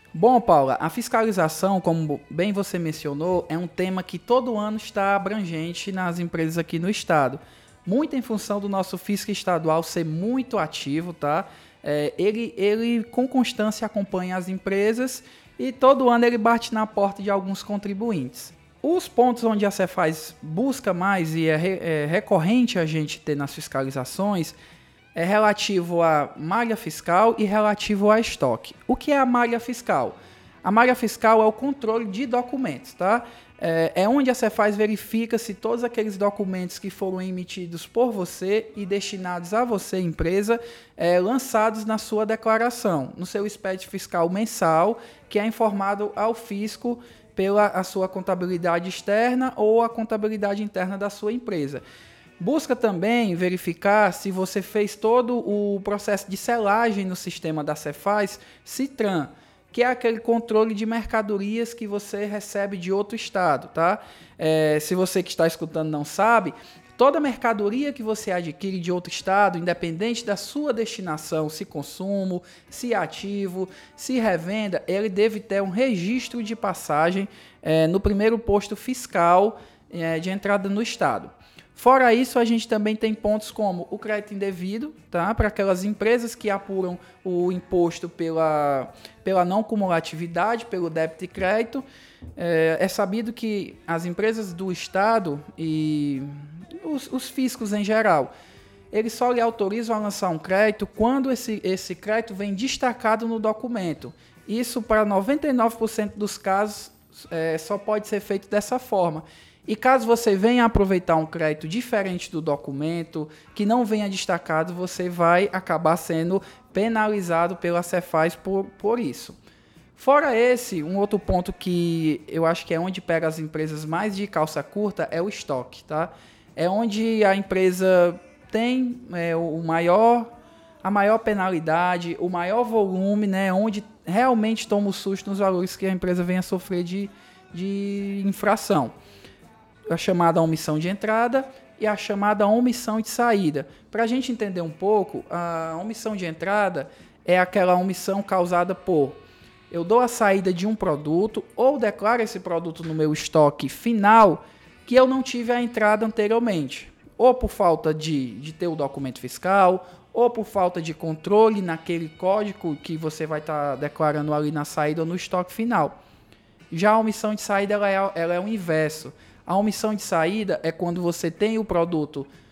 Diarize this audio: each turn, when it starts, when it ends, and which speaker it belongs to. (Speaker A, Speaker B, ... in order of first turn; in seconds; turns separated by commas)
Speaker A: 0.1-24.6, Speaker A: 25.1-51.8, Speaker A: 52.4-91.8, Speaker A: 92.3-98.3, Speaker A: 98.9-119.4, Speaker A: 120.0-138.9, Speaker A: 139.9-166.0, Speaker A: 166.7-172.3